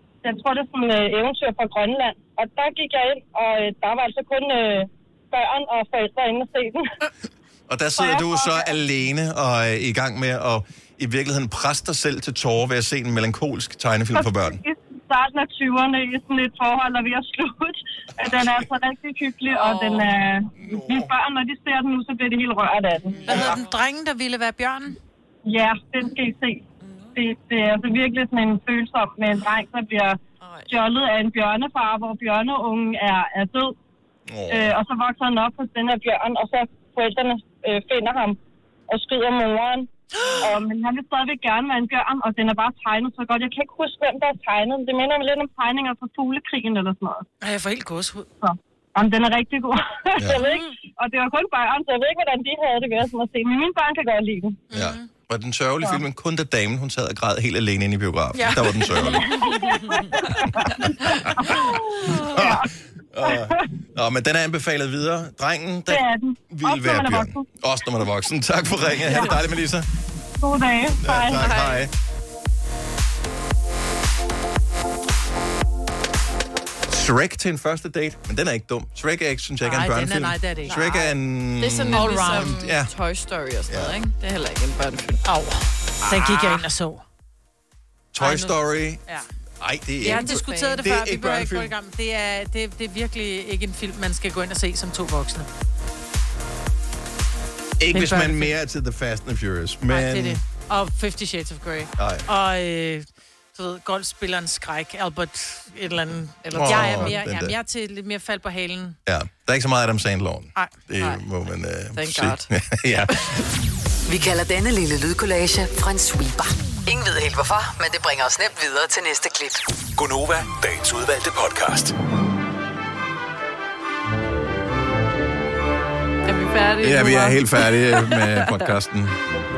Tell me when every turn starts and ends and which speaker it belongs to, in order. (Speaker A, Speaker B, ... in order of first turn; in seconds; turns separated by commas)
Speaker A: 0.2-6.9, Speaker B: 7.7-14.6, Speaker A: 8.0-8.7, Speaker A: 14.1-23.2, Speaker B: 18.3-18.5, Speaker B: 20.6-21.1, Speaker B: 23.2-23.6, Speaker C: 23.2-25.0, Speaker A: 25.5-26.6, Speaker A: 27.1-33.7, Speaker D: 30.4-30.7, Speaker B: 34.3-34.7, Speaker A: 34.5-38.4, Speaker A: 38.9-47.2, Speaker C: 47.4-48.3, Speaker A: 48.4-54.6, Speaker C: 54.7-55.1, Speaker B: 54.7-59.7, Speaker C: 58.3-59.8, Speaker A: 59.4-62.6, Speaker B: 61.0-61.4, Speaker B: 62.1-69.8, Speaker A: 63.2-63.5, Speaker A: 65.9-67.5, Speaker A: 70.4-71.6, Speaker B: 71.0-71.9, Speaker D: 71.3-71.8, Speaker B: 76.9-82.9, Speaker C: 79.6-81.1, Speaker D: 81.6-85.2, Speaker C: 81.9-82.5, Speaker B: 83.7-83.9, Speaker C: 85.2-87.0, Speaker B: 88.1-89.0, Speaker C: 88.2-89.3, Speaker B: 89.6-91.7, Speaker C: 90.0-95.5, Speaker D: 90.0-90.8, Speaker B: 97.8-100.4, Speaker C: 97.9-98.5, Speaker C: 99.9-109.0, Speaker B: 102.0-102.2, Speaker D: 106.4-107.2, Speaker B: 106.5-107.5, Speaker B: 109.0-113.3, Speaker D: 111.9-112.5, Speaker E: 114.1-119.7, Speaker F: 120.0-121.9, Speaker D: 126.2-128.7, Speaker B: 126.8-129.2